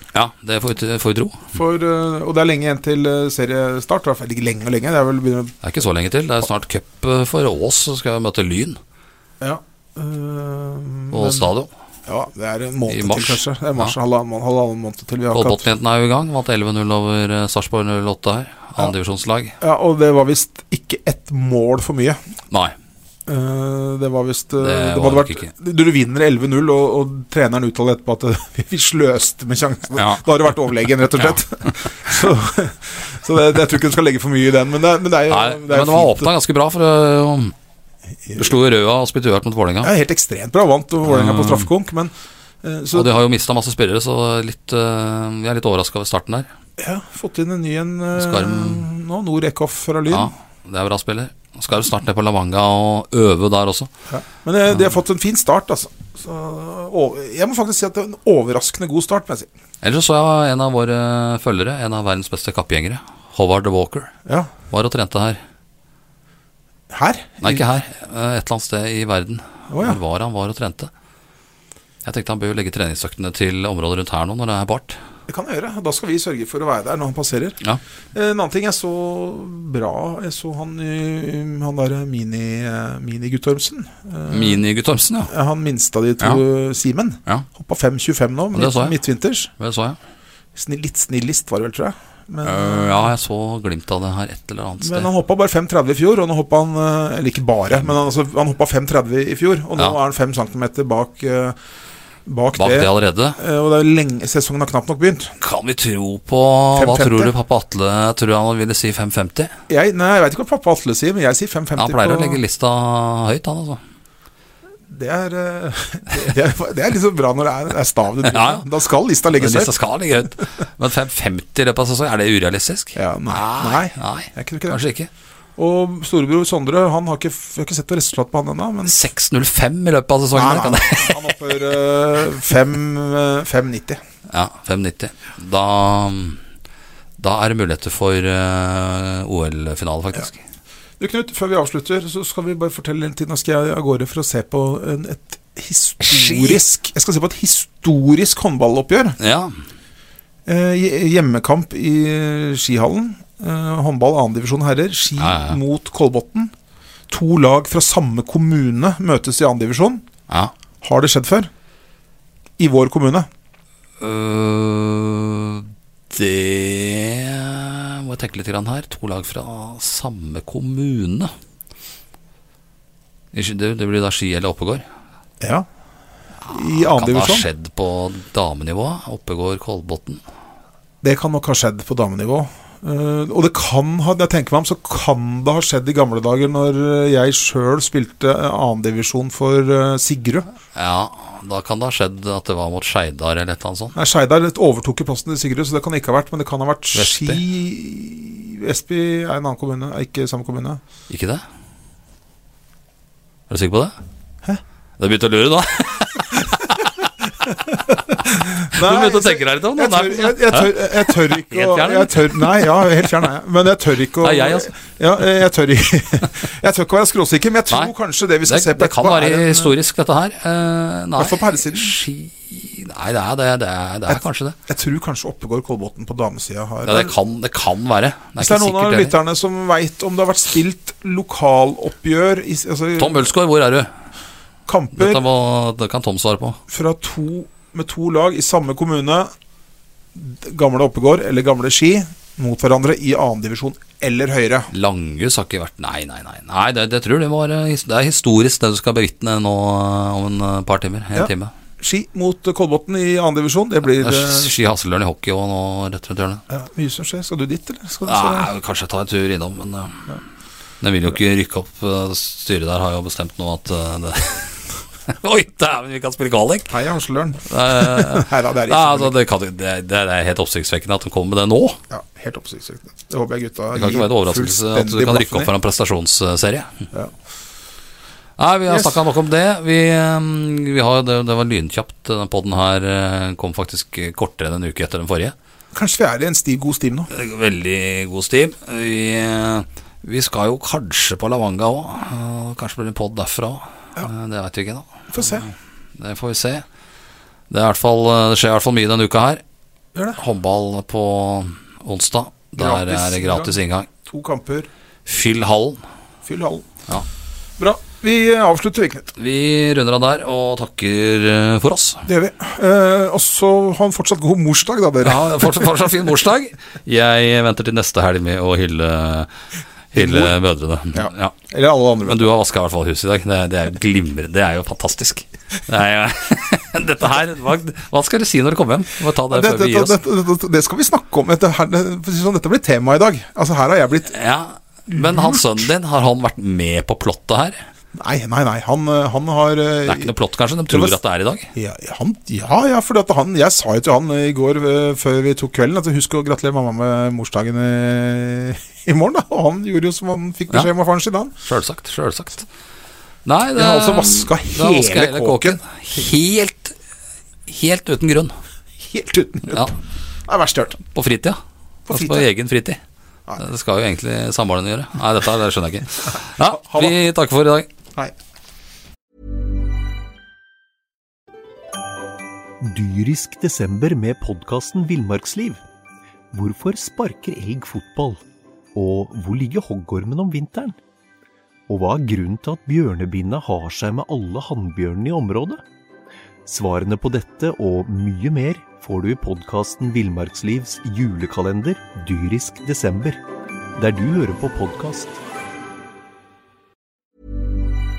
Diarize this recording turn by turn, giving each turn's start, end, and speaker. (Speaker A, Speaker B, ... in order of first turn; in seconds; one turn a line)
Speaker A: 0.1-1.5
Speaker B: 1.5-5.6
Speaker A: 5.6-8.8
Speaker B: 9.4-11.5
Speaker A: 11.1-11.7
Speaker B: 12.1-15.7
Speaker A: 12.9-13.9
Speaker A: 15.3-19.6
Speaker B: 19.6-22.2
Speaker B: 23.3-36.3
Speaker A: 24.6-25.5
Speaker A: 29.9-30.2
Speaker A: 35.3-37.5
Speaker B: 38.3-38.5
Speaker A: 38.4-39.9
Speaker B: 39.8-43.1
Speaker A: 41.0-41.7
Speaker A: 42.9-46.5
Speaker B: 46.8-50.3
Speaker A: 48.1-48.9
Speaker A: 50.1-53.9
Speaker B: 54.1-59.5
Speaker A: 59.8-64.1
Speaker A: 64.7-65.4
Speaker B: 66.9-67.6
Speaker A: 67.4-70.9
Speaker B: 69.7-70.0
Speaker A: 72.0-75.0
Speaker B: 75.3-77.6
Speaker B: 78.1-84.6
Speaker A: 84.3-85.3
Speaker B: 85.3-89.5
Speaker A: 88.5-89.0
Speaker A: 89.6-90.0
Speaker B: 90.5-93.1
Speaker A: 92.4-95.1
Speaker B: 94.8-101.6
Speaker B: 102.3-105.3
Speaker A: 102.6-103.4
Speaker A: 105.4-109.5
Speaker B: 106.7-107.3
Speaker B: 109.7-112.4
Speaker A: 111.8-113.8
Speaker B: 114.9-119.7
Speaker A: 118.2-118.7
Speaker A: 119.3-125.1
Speaker B: 123.0-124.8
Speaker B: 125.6-129.0
Speaker A: 128.8-131.3
Speaker B: 130.3-134.0
Speaker A: 134.3-136.4
Speaker A: 137.2-140.4
Speaker B: 141.0-149.2
Speaker A: 146.0-146.6
Speaker A: 149.2-149.6
Speaker B: 150.5-156.5
Speaker A: 155.2-155.6
Speaker B: 157.1-160.1
Speaker B: 160.8-161.5
Speaker B: 162.6-163.3
Speaker A: 164.0-171.3
Speaker A: 173.3-174.8
Speaker B: 175.4-175.7
Speaker A: 176.5-180.2
Speaker B: 176.5-177.5
Speaker B: 181.0-190.5
Speaker A: 190.8-193.9
Speaker B: 193.9-200.8
Speaker A: 196.9-197.4
Speaker A: 201.1-201.4
Speaker A: 203.5-204.0
Speaker A: 205.0-207.5
Speaker B: 207.7-219.7
Speaker A: 208.7-213.2
Speaker A: 214.2-214.7
Speaker A: 218.4-224.6
Speaker B: 221.2-221.9
Speaker B: 224.1-227.1
Speaker A: 226.8-229.2
Speaker B: 228.4-233.3
Speaker A: 233.0-233.9
Speaker B: 234.7-235.2
Speaker A: 234.9-236.6
Speaker B: 236.7-239.3
Speaker B: 240.1-244.7
Speaker A: 244.7-251.5
Speaker B: 251.1-254.6
Speaker A: 254.0-256.4
Speaker B: 256.5-258.5
Speaker A: 258.1-260.2
Speaker A: 260.8-264.5
Speaker A: 265.1-266.8
Speaker B: 266.7-269.1
Speaker A: 267.5-271.8
Speaker B: 271.9-275.5
Speaker A: 273.7-276.8
Speaker A: 278.4-285.4
Speaker B: 278.7-279.0
Speaker B: 285.7-287.1
Speaker A: 287.1-296.6
Speaker B: 295.1-295.4
Speaker A: 297.5-299.4
Speaker B: 299.9-300.2
Speaker A: 300.2-303.9
Speaker B: 302.6-304.7
Speaker A: 305.1-305.8
Speaker B: 306.2-306.7
Speaker B: 307.6-309.1
Speaker A: 309.2-312.1
Speaker B: 312.1-315.8
Speaker A: 315.0-319.3
Speaker A: 319.9-321.4
Speaker B: 319.9-320.4
Speaker B: 320.9-322.3
Speaker A: 322.1-330.0
Speaker B: 329.3-334.1
Speaker A: 334.1-337.6
Speaker B: 334.9-335.6
Speaker B: 337.9-340.1
Speaker A: 339.9-341.5
Speaker B: 340.7-341.0
Speaker B: 341.5-351.3
Speaker A: 351.4-352.5
Speaker A: 353.3-356.8
Speaker B: 353.6-355.6
Speaker A: 357.5-358.4
Speaker B: 358.8-359.8
Speaker B: 360.3-360.8
Speaker A: 360.9-362.8
Speaker B: 361.9-362.3
Speaker A: 363.4-367.7
Speaker B: 366.4-367.0
Speaker C: 372.6-375.6
Speaker C: 376.3-378.2
Speaker C: 378.8-380.8
Speaker C: 381.7-385.6
Speaker C: 386.5-393.2
Speaker C: 393.8-395.2